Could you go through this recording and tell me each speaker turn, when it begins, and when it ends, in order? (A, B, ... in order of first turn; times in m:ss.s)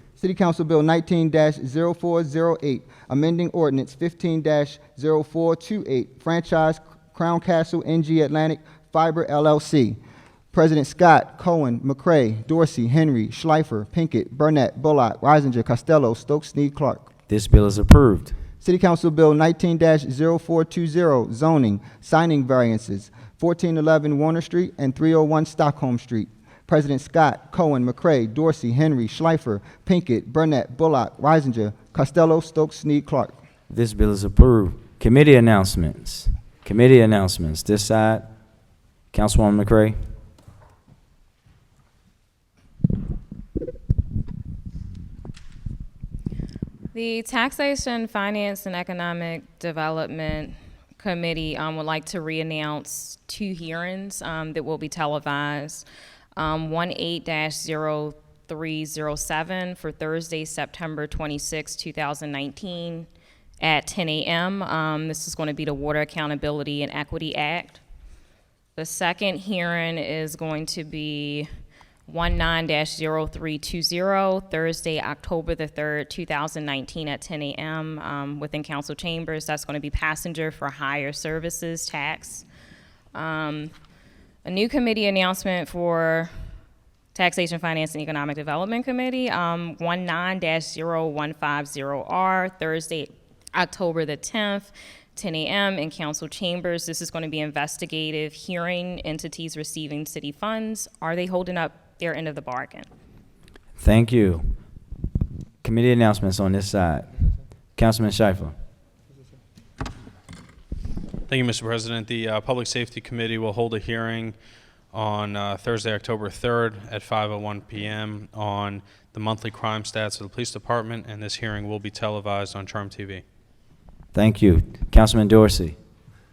0:00.2-0:10.0 A
0:10.5-0:17.1 A
0:17.3-0:18.4 B
0:18.6-0:33.4 A
0:33.7-0:38.3 B
0:39.1-0:40.0 B
0:46.9-0:55.8 C
0:56.4-1:03.1 C
1:03.6-1:07.8 C
1:08.8-1:11.5 C
1:12.1-1:22.4 C
1:23.1-1:23.7 C
1:24.4-1:26.3 C
1:27.1-1:42.9 C
1:43.8-1:44.5 B
1:45.6-1:47.1 B
1:47.8-1:48.6 B
1:51.3-1:54.4 D
1:54.9-2:03.2 D
2:04.1-2:05.8 B